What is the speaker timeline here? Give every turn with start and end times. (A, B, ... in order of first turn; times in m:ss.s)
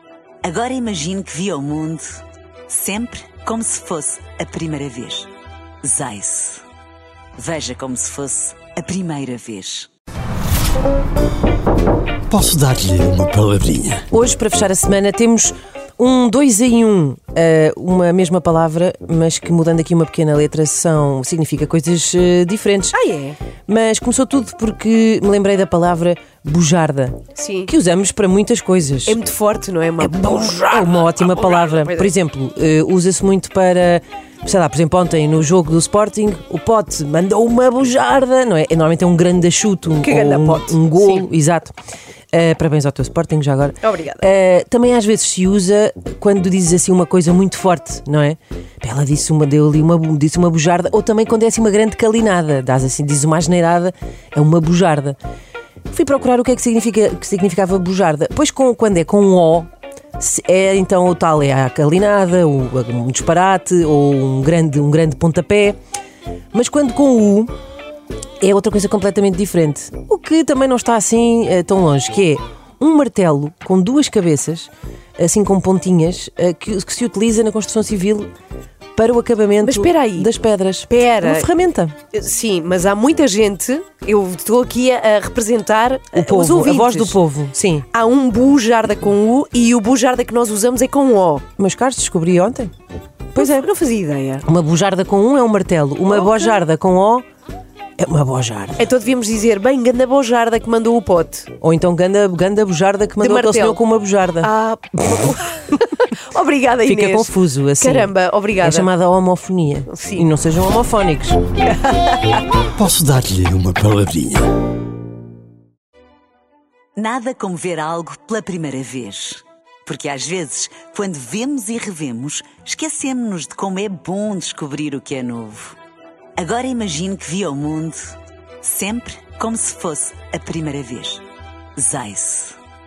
0:00.4-0:05.3 A
0:05.8-0:06.6 A
0:07.4-0:09.9 A
0:12.3-0:14.0 B
0:14.1-0:23.0 C
0:22.9-0:23.4 D
0:23.7-0:29.2 C
0:27.4-0:27.7 D
0:29.0-0:32.1 D
0:30.0-0:41.7 C
0:40.0-0:41.2 D
0:42.3-0:55.2 C
0:43.8-0:44.2 D
0:55.9-1:05.8 C
1:06.5-1:07.5 C
1:08.4-1:18.3 C
1:19.0-1:22.0 C
1:19.6-1:20.3 D
1:20.9-1:21.5 D
1:22.1-1:27.2 D
1:26.1-1:27.8 C
1:27.9-1:31.4 D
1:31.6-1:32.7 C
1:33.4-1:33.7 C
1:33.4-1:34.4 D
1:34.4-1:37.2 C
1:38.0-1:38.8 C
1:38.8-1:41.5 D
1:41.6-1:44.5 C
1:43.2-1:43.8 D
1:44.4-1:48.9 D
1:46.8-1:51.4 C
1:49.9-1:50.3 D
1:52.7-1:54.5 B
1:57.0-2:05.8 A
2:06.4-2:11.2 A
2:11.8-2:12.6 A